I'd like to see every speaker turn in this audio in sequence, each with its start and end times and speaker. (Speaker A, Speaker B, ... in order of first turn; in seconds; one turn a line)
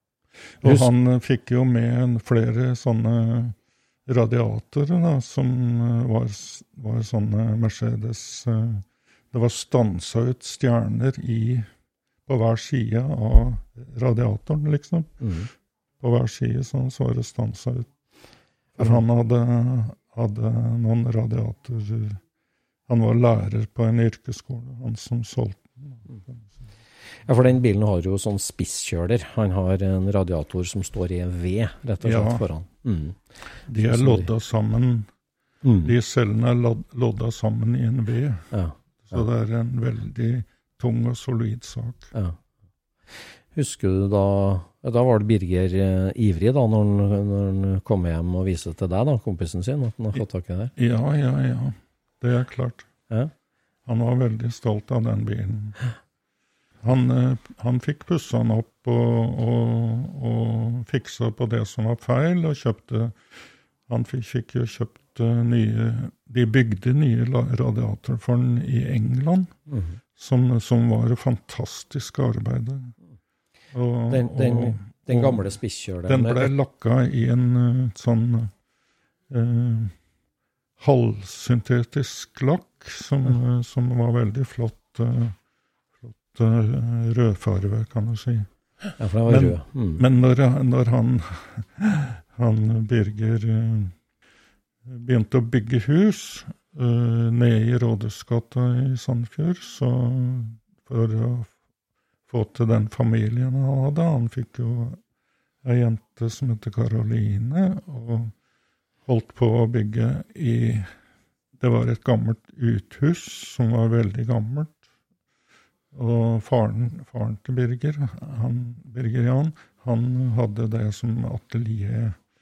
Speaker A: 0.6-11.7
Speaker B: 0.6-0.9
Speaker A: 12.3-15.2
Speaker B: 15.2-15.5
Speaker A: 16.0-17.9
Speaker A: 18.8-22.2
Speaker A: 22.9-26.6
Speaker B: 27.3-33.2
Speaker A: 32.0-32.5
Speaker A: 33.7-35.1
Speaker B: 33.8-34.3
Speaker B: 35.6-35.9
Speaker A: 35.8-38.5
Speaker B: 38.5-39.2
Speaker A: 39.0-42.1
Speaker B: 43.5-50.7
Speaker A: 50.8-52.9
Speaker A: 53.9-55.8
Speaker A: 56.8-69.5
Speaker B: 69.7-70.0
Speaker A: 70.2-73.0
Speaker A: 73.7-78.5
Speaker B: 74.1-76.5
Speaker A: 79.3-80.0
Speaker A: 80.8-85.4
Speaker A: 86.0-88.5
Speaker B: 89.0-90.0
Speaker A: 89.3-93.9
Speaker A: 94.9-101.5
Speaker A: 102.3-105.0
Speaker A: 105.6-108.3
Speaker A: 109.1-110.9
Speaker A: 111.6-114.8
Speaker A: 115.9-122.2